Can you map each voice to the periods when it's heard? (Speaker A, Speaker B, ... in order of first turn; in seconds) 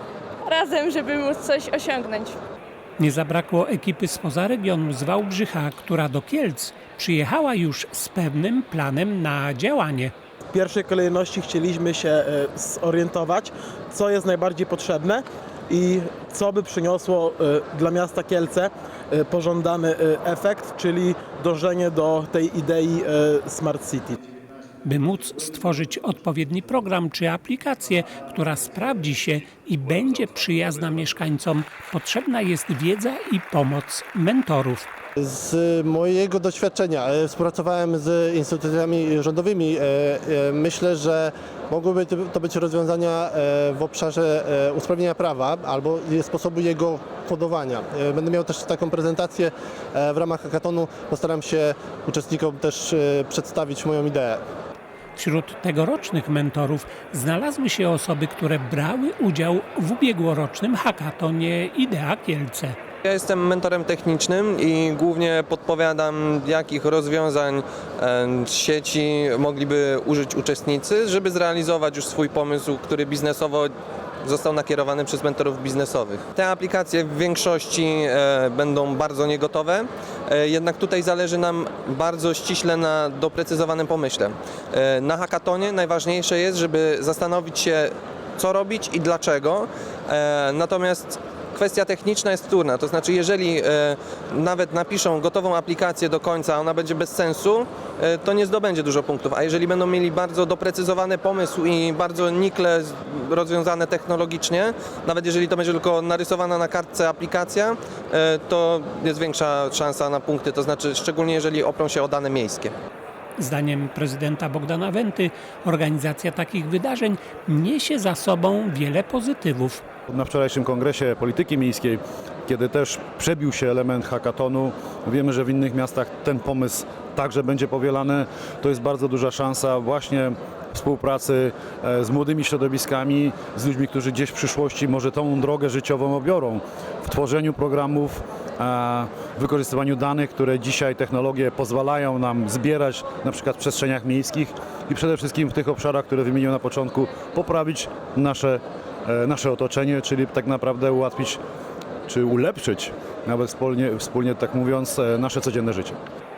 Speaker A: 0.4-2.4
Speaker B: 3.0-10.1, 24.8-34.9, 55.1-62.8, 113.4-119.8
Speaker C: 10.5-24.2
Speaker D: 35.2-54.4
Speaker E: 63.0-73.7, 74.2-112.7
Speaker F: 120.1-151.4, 152.1-156.0